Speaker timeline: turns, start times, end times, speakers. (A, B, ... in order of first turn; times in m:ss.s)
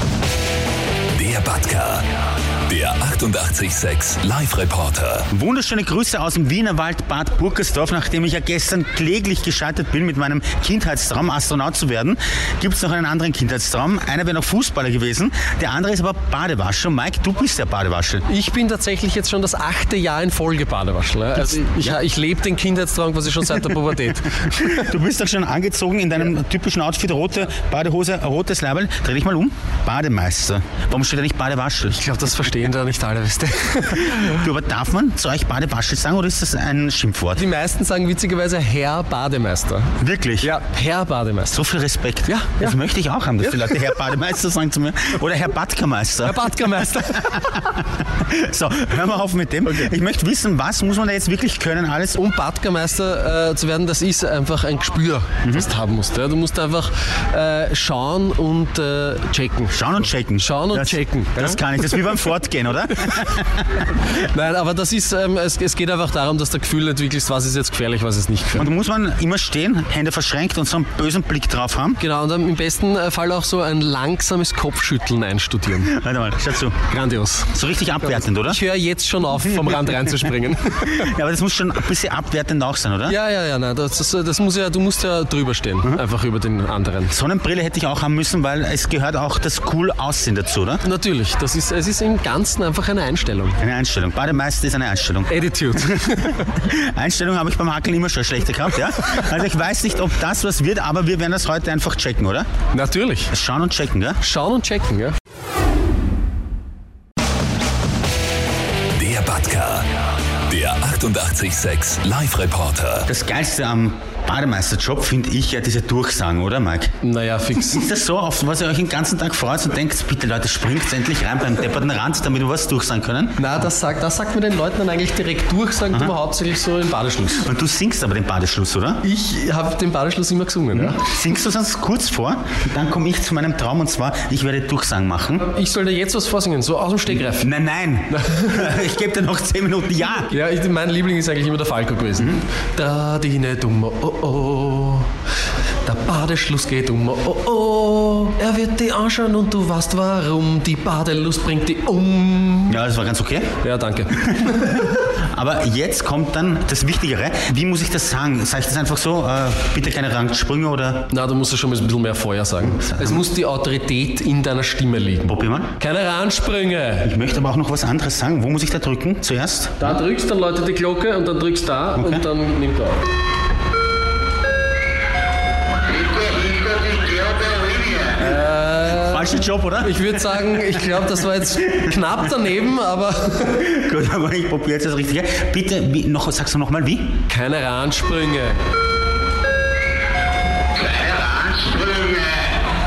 0:01.1-0:02.1 A
0:02.7-0:05.3 A
0:05.3-0:18.2 B
0:18.3-0:24.9 C
0:21.5-0:22.0 B
0:24.4-0:32.0 B
0:31.9-0:34.4 C
0:34.0-0:37.4 B
0:37.3-0:41.6 C
0:40.0-0:40.5 B
0:41.5-0:52.2 B
0:42.3-0:42.8 C
0:43.4-0:43.9 C
0:46.2-0:47.5 C
0:49.6-0:49.9 C
0:52.2-0:59.8 C
0:59.7-1:03.8 B
1:00.4-1:01.7 C
1:03.8-1:08.7 C
1:08.5-1:12.0 B
1:12.0-1:16.0 C
1:15.7-1:16.8 B
1:16.8-1:21.1 C
1:17.5-1:18.6 B
1:20.8-1:23.2 B
1:23.1-1:27.1 C
1:27.1-1:30.8 B
1:30.8-1:33.6 C
1:33.6-1:42.5 B
1:35.3-1:36.5 C
1:42.7-1:43.3 C
1:43.3-1:44.2 B
1:44.2-1:45.2 C
1:48.9-1:49.9 A
1:50.5-1:53.1 A
1:53.0-1:56.9 B
1:57.0-1:57.8 C
1:57.5-2:03.4 B
2:03.4-2:07.5 C
2:07.3-2:09.0 B
2:09.0-2:11.0 C
2:10.8-2:15.4 B
2:15.4-2:17.5 C
2:17.1-2:20.3 B
2:18.1-2:18.7 C
2:20.3-2:25.1 C
2:25.8-2:32.8 C
2:32.7-2:33.5 B
2:33.6-2:34.9 C
2:34.1-2:41.1 B
2:41.1-2:47.1 C
2:42.6-2:43.2 B
2:45.3-2:45.7 B
2:47.0-2:50.0 B
2:49.8-2:53.0 C
2:52.0-2:52.2 B
2:55.9-3:00.4 B
2:58.2-3:03.7 C
3:01.6-3:01.9 B
3:03.5-3:07.1 B
3:07.3-3:08.6 C
3:10.7-3:12.6 B